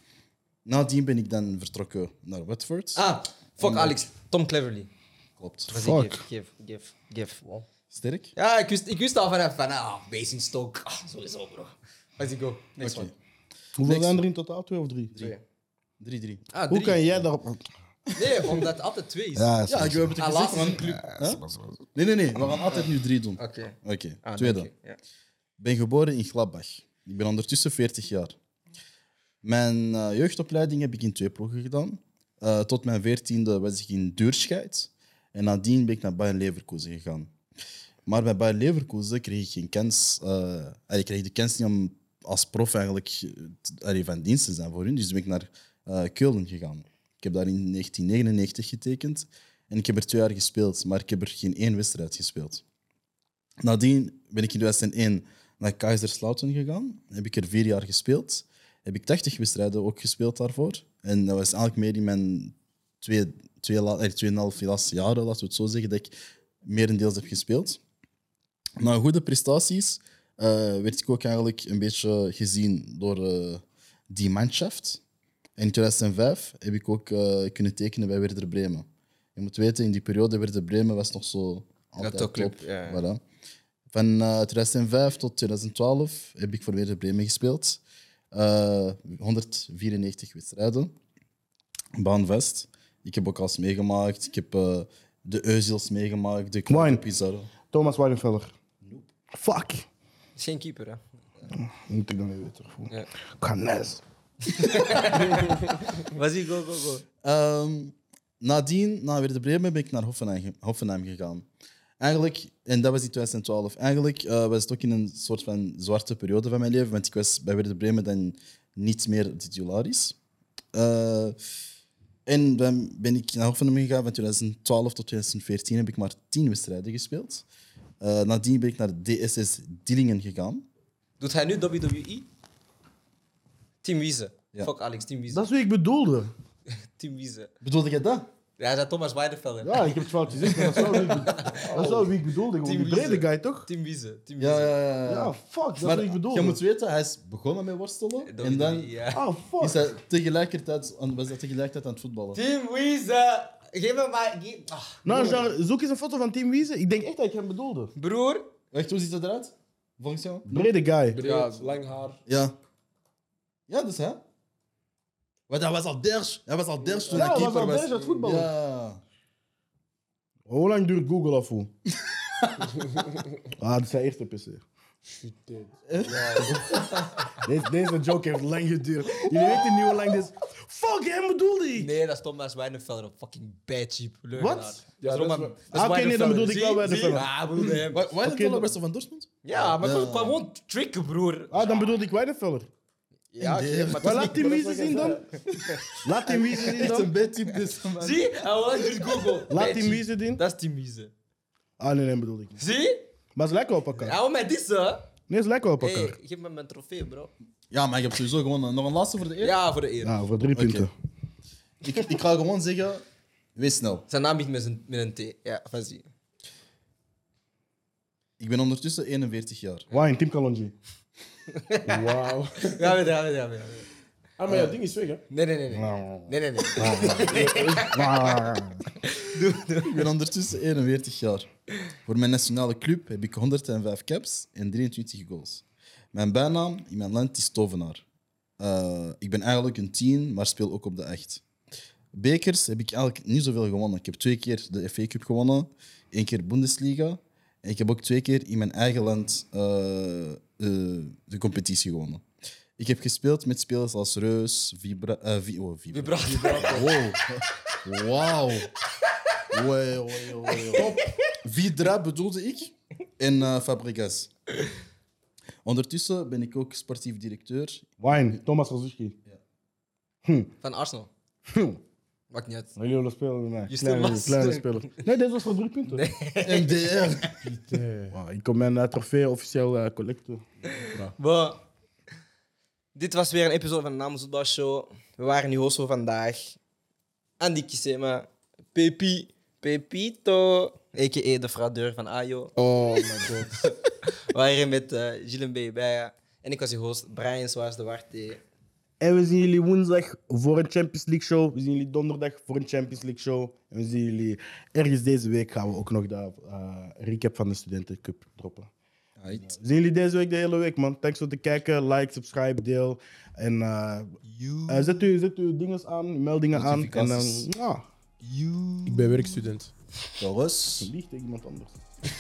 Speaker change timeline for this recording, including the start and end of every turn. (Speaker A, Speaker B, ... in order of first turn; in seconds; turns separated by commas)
Speaker A: 0.7-3.0, Speaker B: 3.0-4.9, Speaker A: 3.6-4.0, Speaker A: 5.4-5.7, Speaker B: 5.7-7.6, Speaker C: 5.7-6.2, Speaker A: 7.9-8.3, Speaker B: 8.4-13.1, Speaker A: 12.8-13.2, Speaker C: 13.8-15.3, Speaker A: 13.8-14.2, Speaker A: 16.0-16.5, Speaker B: 16.5-17.2, Speaker C: 16.7-17.6, Speaker B: 18.1-19.6, Speaker C: 19.4-20.1, Speaker A: 19.7-21.4, Speaker B: 20.2-21.2, Speaker C: 21.2-21.8, Speaker A: 21.9-24.7, Speaker B: 22.7-25.0, Speaker A: 25.6-28.4, Speaker A: 29.4-37.3, Speaker A: 38.1-52.6, Speaker A: 53.6-67.8, Speaker A: 68.8-75.0, Speaker A: 75.6-83.2, Speaker B: 82.0-83.0, Speaker A: 83.9-87.8, Speaker A: 88.3-91.0, Speaker A: 92.0-97.5, Speaker C: 96.7-97.0, Speaker C: 97.6-98.5, Speaker A: 98.8-99.1, Speaker C: 99.3-99.8, Speaker B: 100.4-101.5, Speaker C: 101.5-104.0, Speaker B: 104.5-107.0, Speaker A: 107.2-111.5, Speaker A: 112.0-120.2, Speaker A: 120.7-121.4, Speaker A: 122.3-127.5, Speaker A: 128.0-130.7, Speaker B: 131.2-132.3, Speaker B: 133.8-135.4, Speaker C: 135.3-136.3, Speaker B: 136.9-137.5, Speaker A: 137.6-138.3, Speaker B: 138.6-142.1, Speaker C: 139.6-143.7, Speaker D: 141.6-142.1, Speaker B: 142.6-144.7, Speaker A: 144.4-148.9, Speaker C: 145.1-146.6, Speaker B: 148.2-149.2, Speaker C: 149.1-149.8, Speaker A: 149.6-152.4, Speaker B: 152.3-155.4, Speaker C: 155.1-157.9, Speaker B: 158.0-158.5, Speaker A: 158.7-160.5, Speaker C: 160.5-161.2, Speaker D: 161.1-162.2, Speaker B: 161.2-161.8, Speaker A: 162.3-162.6, Speaker A: 163.7-164.2, Speaker A: 165.5-169.0, Speaker B: 166.9-168.0, Speaker C: 167.1-168.5, Speaker C: 170.5-171.7, Speaker A: 172.4-172.9, Speaker C: 173.6-174.6, Speaker D: 175.1-176.6, Speaker A: 175.9-176.8, Speaker B: 176.3-177.3, Speaker C: 177.4-181.9, Speaker B: 179.1-180.0, Speaker B: 181.8-188.1, Speaker C: 184.4-184.7, Speaker D: 185.0-185.6, Speaker C: 185.7-188.7, Speaker A: 187.9-190.4, Speaker B: 189.4-191.9, Speaker C: 191.5-192.7, Speaker B: 193.3-197.0, Speaker A: 193.4-194.5, Speaker C: 194.0-195.3, Speaker C: 196.0-197.1, Speaker A: 196.3-198.3, Speaker B: 198.0-201.1, Speaker C: 199.5-200.4, Speaker C: 201.8-202.6, Speaker B: 202.6-203.1, Speaker C: 203.4-204.2, Speaker B: 204.0-205.1, Speaker C: 205.3-206.2, Speaker B: 205.8-207.3, Speaker A: 207.7-209.6, Speaker B: 209.4-210.1, Speaker C: 210.0-210.9, Speaker A: 210.6-210.9, Speaker A: 211.8-214.1, Speaker B: 214.1-216.1, Speaker A: 218.4-219.9, Speaker C: 219.9-220.8, Speaker B: 221.5-222.0, Speaker D: 221.8-223.0, Speaker B: 222.8-223.9, Speaker D: 224.4-225.2, Speaker C: 224.5-224.7, Speaker B: 225.3-228.3, Speaker C: 225.7-228.9, Speaker D: 227.1-227.9, Speaker B: 229.0-230.1, Speaker A: 229.8-231.5, Speaker A: 232.1-238.0, Speaker A: 238.6-241.4, Speaker A: 242.1-252.2, Speaker A: 252.8-258.7, Speaker B: 255.9-257.0, Speaker B: 259.1-259.4, Speaker A: 259.5-264.3, Speaker B: 260.5-261.4, Speaker A: 265.6-268.4, Speaker C: 268.0-269.2, Speaker C: 270.2-270.5, Speaker B: 270.6-271.1, Speaker C: 271.5-271.8, Speaker B: 272.3-272.7, Speaker C: 272.8-276.0, Speaker B: 273.7-275.0, Speaker B: 275.9-277.3, Speaker A: 276.4-277.4, Speaker D: 277.4-278.1, Speaker C: 278.1-280.7, Speaker B: 280.7-281.6, Speaker B: 282.9-286.6, Speaker B: 287.4-292.5, Speaker D: 292.6-293.7, Speaker B: 293.6-298.4, Speaker C: 299.0-308.7, Speaker A: 309.2-309.6, Speaker C: 309.3-314.1, Speaker B: 314.3-315.1, Speaker C: 314.7-317.9, Speaker A: 316.6-317.4, Speaker B: 316.9-317.2, Speaker B: 318.2-319.4, Speaker D: 318.9-319.7, Speaker A: 320.2-320.9, Speaker C: 320.8-321.8